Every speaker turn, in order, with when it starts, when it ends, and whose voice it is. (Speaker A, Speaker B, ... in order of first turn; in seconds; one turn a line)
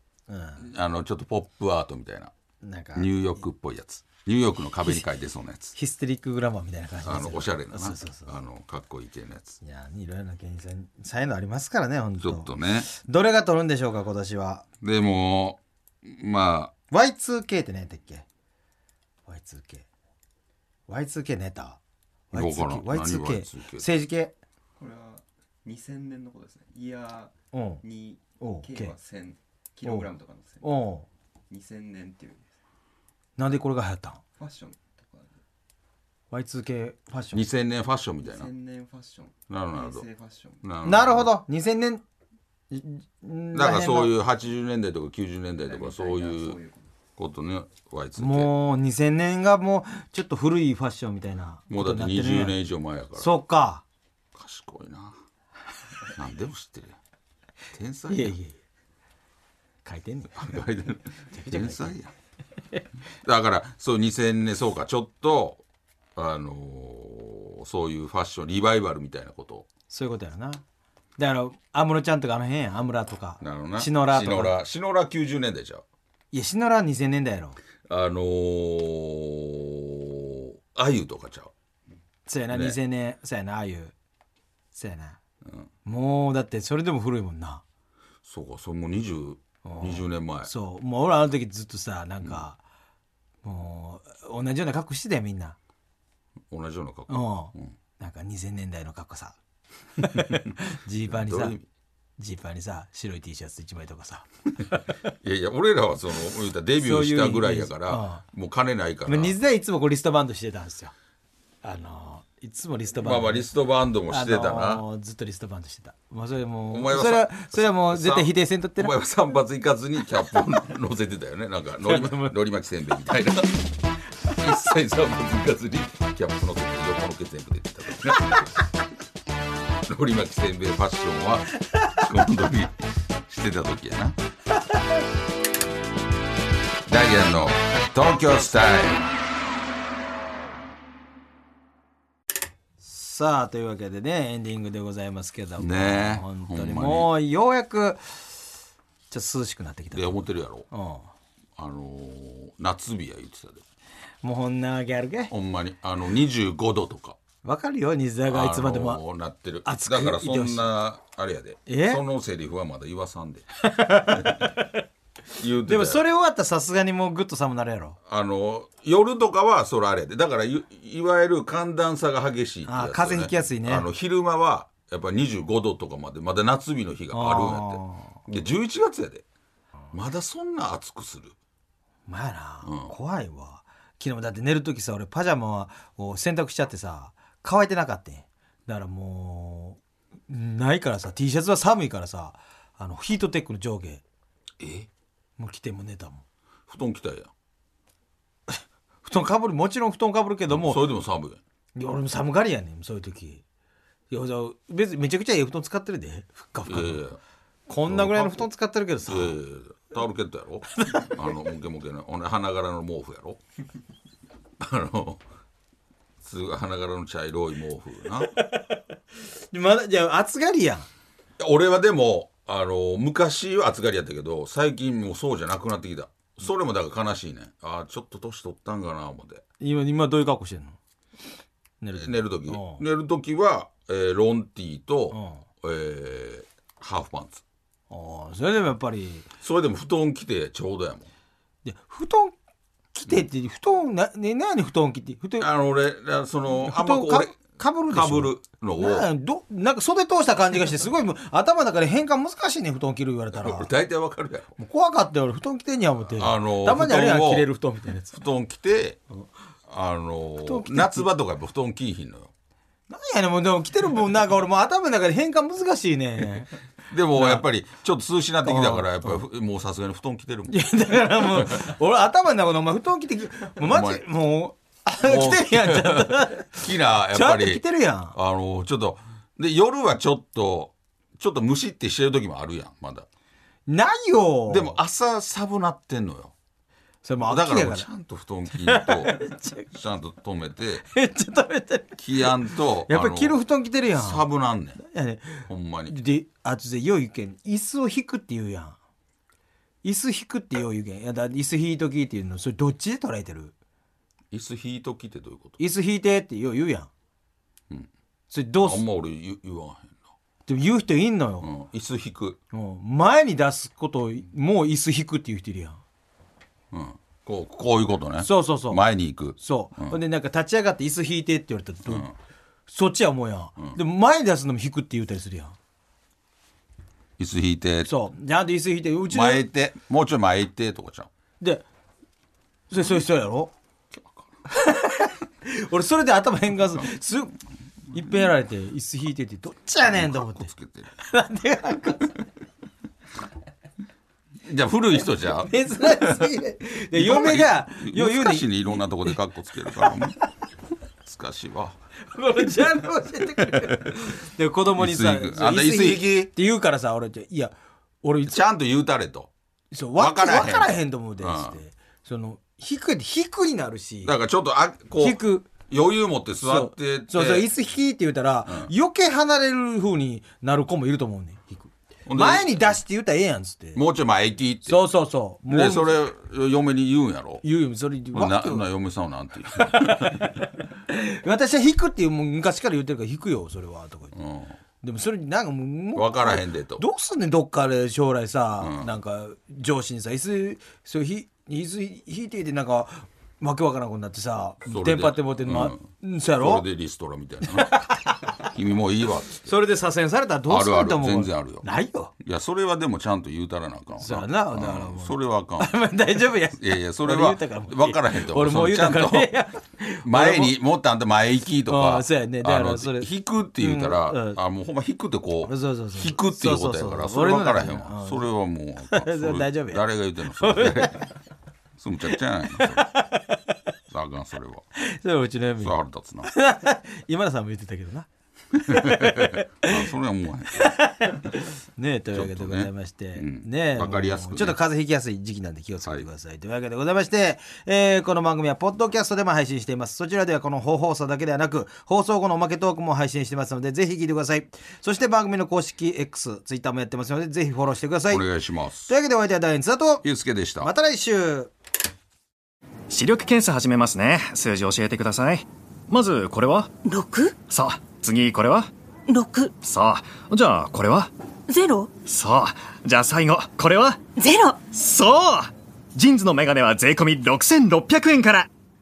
Speaker A: 0.3-0.7
Speaker B: 0.6-2.3
Speaker A: 2.6-3.2
Speaker B: 2.9-5.7
Speaker A: 5.7-8.3
Speaker B: 7.0-9.6
Speaker A: 9.6-14.6
Speaker B: 12.2-12.9
Speaker B: 14.8-16.7
Speaker A: 16.9-18.2
Speaker A: 19.3-19.9
Speaker A: 20.9-21.8
Speaker B: 22.3-23.9
Speaker A: 22.3-24.3
Speaker C: 24.8-30.8
Speaker A: 27.5-27.8
Speaker A: 28.4-28.9
Speaker A: 30.6-31.1
Speaker C: 31.5-32.5
Speaker A: 33.4-34.2
Speaker C: 34.4-35.4
Speaker A: 36.3-37.5
Speaker B: 37.3-38.5
Speaker C: 38.2-40.6
Speaker B: 39.5-40.0
Speaker B: 40.6-41.3
Speaker A: 40.8-42.0
Speaker A: 42.7-44.1
Speaker B: 43.5-46.6
Speaker C: 45.6-46.9
Speaker B: 47.2-48.5
Speaker A: 48.1-52.6
Speaker B: 51.7-53.3
Speaker A: 53.1-53.8
Speaker B: 54.3-55.2
Speaker B: 56.1-57.0
Speaker B: 57.7-58.4
Speaker A: 58.1-58.6
Speaker A: 59.8-60.6
Speaker B: 60.3-62.1
Speaker A: 61.3-62.0
Speaker B: 63.2-65.6
Speaker B: 66.1-69.7
Speaker A: 69.9-70.6
Speaker A: 71.2-74.5
Speaker B: 73.4-75.8
Speaker A: 76.3-77.6
Speaker B: 77.9-81.5
Speaker A: 82.2-83.9
Speaker B: 82.5-82.8
Speaker A: 84.7-85.2
Speaker A: 85.8-87.6
Speaker B: 88.2-90.5
Speaker A: 89.6-92.6
Speaker A: 93.4-95.5
Speaker B: 96.5-97.7
Speaker A: 97.1-99.3
Speaker A: 100.0-101.6
Speaker B: 101.1-101.7
Speaker A: 102.2-105.1
Speaker B: 105.2-109.3
Speaker A: 106.8-108.2
Speaker A: 109.0-110.9
Speaker A: 111.6-113.5
Speaker B: 113.0-114.8
Speaker A: 114.1-118.9
Speaker B: 116.7-123.7
Speaker A: 121.8-122.3
Speaker B: 124.3-128.5
Speaker B: 129.9-132.7
Speaker B: 133.2-134.2
Speaker B: 136.8-139.1
Speaker A: 142.8-148.4
Speaker B: 145.6-147.1
Speaker A: 149.1-151.1
Speaker B: 149.9-150.7
Speaker B: 151.6-153.6
Speaker A: 154.2-155.3
Speaker B: 155.3-157.2
Speaker A: 157.4-159.0
Speaker B: 158.3-163.5
Speaker A: 159.6-160.7
Speaker A: 161.7-162.0
Speaker A: 163.6-164.7
Speaker B: 164.0-164.4
Speaker B: 165.3-166.0
Speaker A: 165.6-168.0
Speaker B: 168.1-179.2
Speaker A: 172.7-173.9
Speaker A: 177.1-178.2
Speaker B: 179.9-181.3
Speaker A: 182.1-194.0
Speaker B: 182.6-182.9
Speaker B: 194.6-194.9
Speaker A: 195.4-196.2
Speaker B: 196.7-197.3
Speaker A: 198.5-200.8
Speaker B: 200.5-201.4
Speaker A: 201.8-203.4
Speaker A: 204.1-207.0
Speaker B: 206.7-207.2
Speaker A: 207.7-209.4
Speaker B: 207.8-208.5
Speaker B: 209.1-213.4
Speaker A: 210.8-211.1
Speaker B: 214.6-215.2
Speaker B: 216.2-218.3
Speaker A: 218.3-218.8
Speaker A: 219.5-220.9
Speaker B: 221.4-229.4
Speaker A: 229.6-230.8
Speaker A: 231.8-232.8
Speaker B: 231.9-237.4
Speaker A: 235.1-235.4
Speaker A: 237.9-239.3
Speaker B: 239.4-241.1
Speaker A: 241.6-242.3
Speaker A: 242.9-245.5
Speaker B: 245.4-249.1
Speaker A: 246.5-253.7
Speaker B: 253.3-254.6
Speaker A: 254.6-258.1
Speaker B: 256.1-257.5
Speaker B: 258.1-259.0
Speaker B: 259.7-262.3
Speaker A: 260.4-261.1
Speaker A: 262.9-266.5
Speaker B: 266.9-270.6
Speaker A: 267.1-267.4
Speaker A: 268.4-269.2
Speaker A: 270.5-278.1
Speaker B: 273.6-274.0
Speaker B: 275.0-283.1
Speaker A: 283.7-284.8
Speaker B: 284.5-286.3
Speaker A: 287.0-287.9
Speaker B: 287.2-290.9
Speaker A: 288.5-289.7
Speaker A: 290.9-292.3
Speaker B: 292.0-294.8
Speaker A: 292.9-298.8
Speaker B: 295.4-296.0
Speaker A: 299.8-303.5
Speaker B: 304.3-305.6
Speaker A: 305.6-306.9
Speaker A: 308.3-308.8
Speaker B: 308.6-310.0
Speaker A: 310.5-311.5
Speaker B: 311.4-312.4
Speaker A: 312.5-315.8
Speaker B: 316.7-320.0
Speaker A: 318.2-318.8
Speaker A: 319.4-322.1
Speaker B: 321.9-322.1
Speaker A: 322.7-325.6
Speaker B: 327.2-327.9
Speaker A: 327.8-329.4
Speaker B: 329.1-331.1
Speaker A: 332.7-333.5
Speaker A: 334.5-337.3
Speaker A: 337.9-342.2
Speaker B: 339.8-340.9
Speaker B: 344.4-346.3
Speaker A: 345.2-349.2
Speaker B: 346.9-350.2
Speaker A: 349.7-350.0
Speaker B: 351.0-351.8
Speaker A: 352.0-358.4
Speaker B: 353.4-354.0
Speaker B: 354.7-356.3
Speaker B: 358.2-359.3
Speaker A: 359.7-364.1
Speaker B: 360.0-361.6
Speaker B: 364.0-367.5
Speaker A: 365.0-365.5
Speaker A: 366.4-373.8
Speaker B: 368.4-368.7
Speaker B: 372.1-372.8
Speaker B: 373.7-374.8
Speaker A: 374.6-376.0
Speaker B: 375.5-377.4
Speaker A: 377.4-378.7
Speaker B: 378.1-380.3
Speaker A: 379.5-384.1
Speaker B: 384.1-384.6
Speaker A: 384.8-396.6
Speaker B: 385.9-386.8
Speaker B: 388.6-388.9
Speaker B: 394.6-395.8
Speaker B: 396.3-397.8
Speaker A: 397.5-398.2
Speaker B: 398.4-399.5
Speaker A: 399.4-402.1
Speaker B: 400.5-401.7
Speaker B: 402.2-405.9
Speaker A: 404.0-410.6
Speaker B: 406.5-409.3
Speaker B: 410.0-421.1
Speaker A: 411.7-414.4
Speaker A: 415.4-418.3
Speaker A: 418.8-419.8
Speaker A: 420.4-421.1
Speaker B: 421.8-422.9
Speaker A: 422.6-423.4
Speaker B: 423.9-424.6
Speaker A: 424.8-429.8
Speaker B: 425.6-426.3
Speaker B: 428.5-430.7
Speaker A: 430.5-448.2
Speaker B: 432.1-434.6
Speaker B: 448.1-448.9
Speaker A: 448.9-450.0
Speaker B: 450.0-450.7
Speaker A: 450.6-451.5
Speaker D: 452.9-456.7
Speaker E: 456.8-457.4
Speaker D: 457.5-458.7
Speaker E: 459.1-459.6
Speaker D: 459.6-461.1
Speaker E: 461.5-461.9
Speaker D: 462.1-464.0
Speaker E: 464.1-464.6
Speaker D: 464.7-468.5